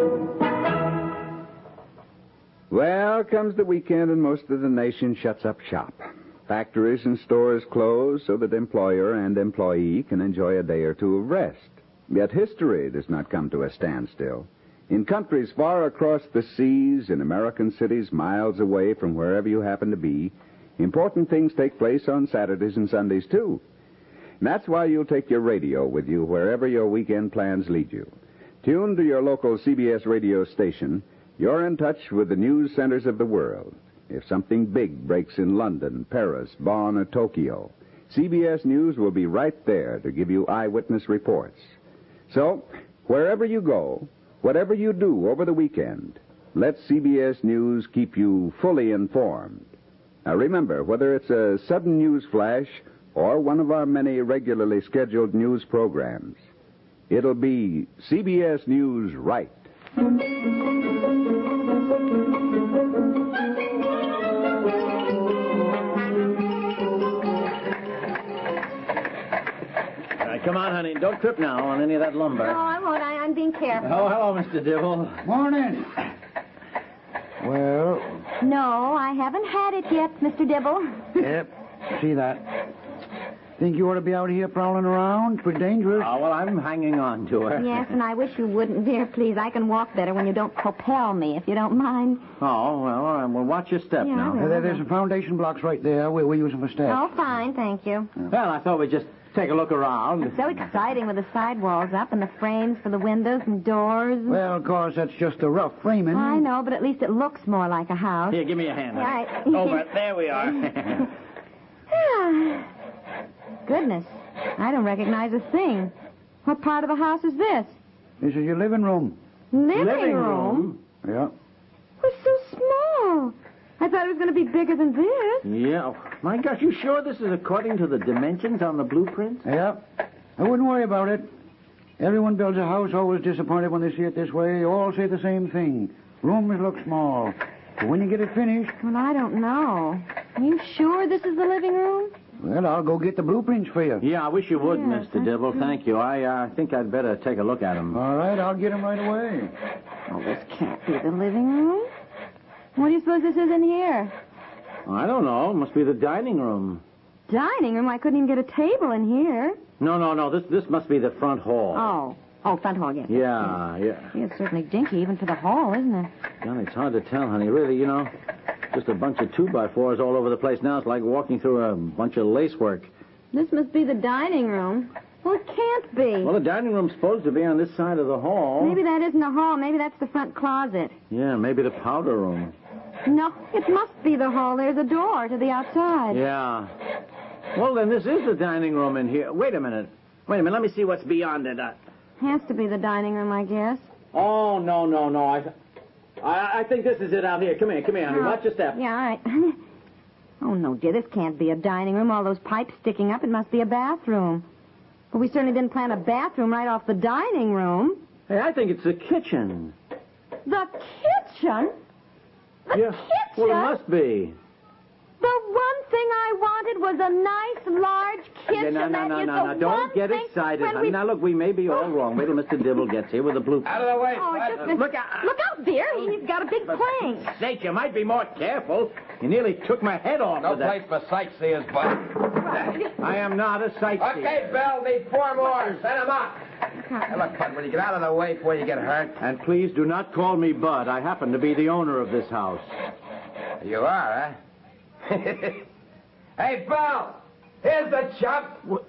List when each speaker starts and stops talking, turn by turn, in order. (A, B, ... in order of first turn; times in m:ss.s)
0:02.7-0:23.6 A
0:24.4-0:28.1 A
0:28.6-0:41.8 A
0:42.3-0:49.7 A
0:50.2-0:56.4 A
0:57.1-0:59.6 A
1:10.2-1:12.6 B
1:12.4-1:14.1 C
1:13.8-1:15.2 B
1:15.2-1:16.0 D
1:17.4-1:18.2 D
1:18.4-1:21.3 C
1:21.2-1:22.6 D
1:23.6-1:26.1 D
1:25.9-1:27.9 B
1:27.6-1:32.3 C
1:32.4-1:34.4 B
1:34.0-1:34.8 C
1:34.4-1:37.0 D
1:36.8-1:38.1 C
1:38.3-1:40.4 B
1:40.3-1:44.4 C
1:44.3-1:46.4 D
1:46.1-1:49.8 C
1:48.3-1:51.1 B
1:51.9-1:52.7 C
1:53.7-1:55.9 C
1:56.4-1:57.8 C
1:58.2-1:59.2 D
1:59.5-2:00.7 C
1:59.7-2:00.8 B
2:01.0-2:01.3 D
2:02.0-2:05.5 C
2:05.4-2:09.4 B
2:09.4-2:09.8 D
2:10.4-2:11.2 D
2:12.0-2:18.7 D
2:18.8-2:22.1 C
2:22.4-2:24.0 D
2:24.0-2:28.0 B
2:24.6-2:25.3 C
2:27.9-2:29.5 D
2:30.1-2:31.9 C
2:32.8-2:34.1 C
2:34.8-2:36.8 B
2:37.3-2:39.6 C
2:39.8-2:41.9 B
2:41.7-2:43.6 C
2:43.1-2:44.1 B
2:44.1-2:46.1 C
2:46.4-2:48.1 B
2:48.7-2:52.9 B
2:53.3-2:56.3 C
2:56.2-2:58.8 B
2:58.6-3:00.9 C
3:01.1-3:02.5 B
3:03.0-3:06.2 C
3:06.1-3:06.7 B
3:07.5-3:11.7 B
3:12.2-3:13.9 C
3:14.1-3:15.5 B
3:16.2-3:18.8 B
3:18.1-3:19.6 C
3:20.4-3:24.4 C
3:25.1-3:28.0 C
3:28.3-3:29.7 B
3:30.4-3:31.7 C
3:32.7-3:33.8 C
3:32.7-3:34.4 B
3:35.2-3:41.0 C
3:38.5-3:45.3 B
3:43.6-3:44.6 E
3:44.1-3:47.4 C
3:46.7-3:50.8 B
3:50.4-3:52.2 E
3:52.5-3:54.6 B
3:54.0-3:56.4 E
3:55.4-3:55.7 B
3:56.8-3:57.1 C
3:57.1-3:59.2 E
3:59.2-4:02.7 B
4:03.6-4:04.4 E
4:05.1-4:05.6 E
4:06.4-4:08.6 E